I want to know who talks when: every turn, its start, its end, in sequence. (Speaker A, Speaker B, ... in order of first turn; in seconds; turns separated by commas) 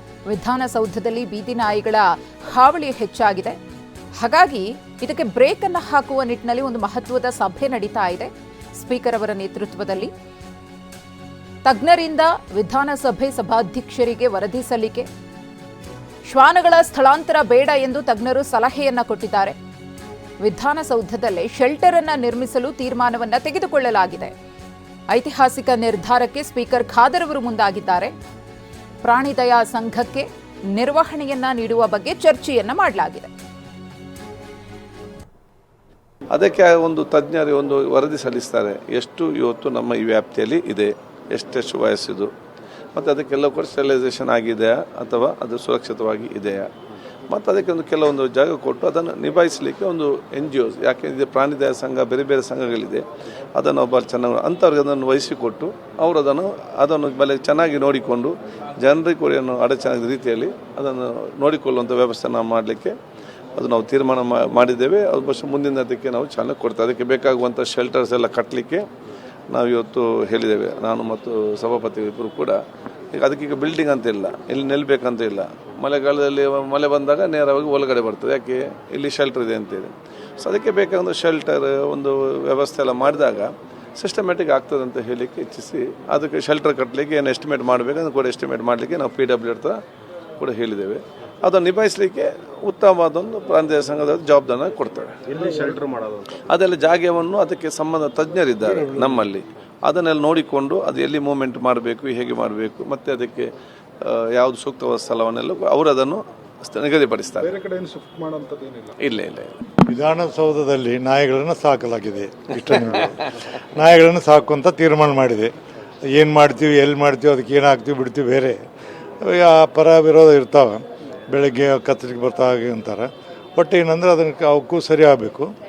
Speaker A: 0.3-3.6, Speaker A: 4.2-10.1, Speaker A: 11.7-15.1, Speaker A: 16.3-19.6, Speaker A: 20.4-24.3, Speaker A: 25.1-28.1, Speaker A: 29.0-33.3, Speaker B: 36.3-42.3, Speaker B: 43.0-46.7, Speaker B: 47.3-53.0, Speaker B: 53.6-62.9, Speaker B: 63.6-68.8, Speaker B: 69.5-72.6, Speaker B: 73.1-89.8, Speaker B: 90.4-95.6, Speaker C: 95.3-96.3, Speaker B: 96.5-103.5, Speaker B: 104.0-107.6, Speaker C: 107.4-108.9, Speaker B: 109.0-109.5, Speaker D: 109.9-115.5, Speaker D: 116.1-118.6, Speaker D: 119.2-125.5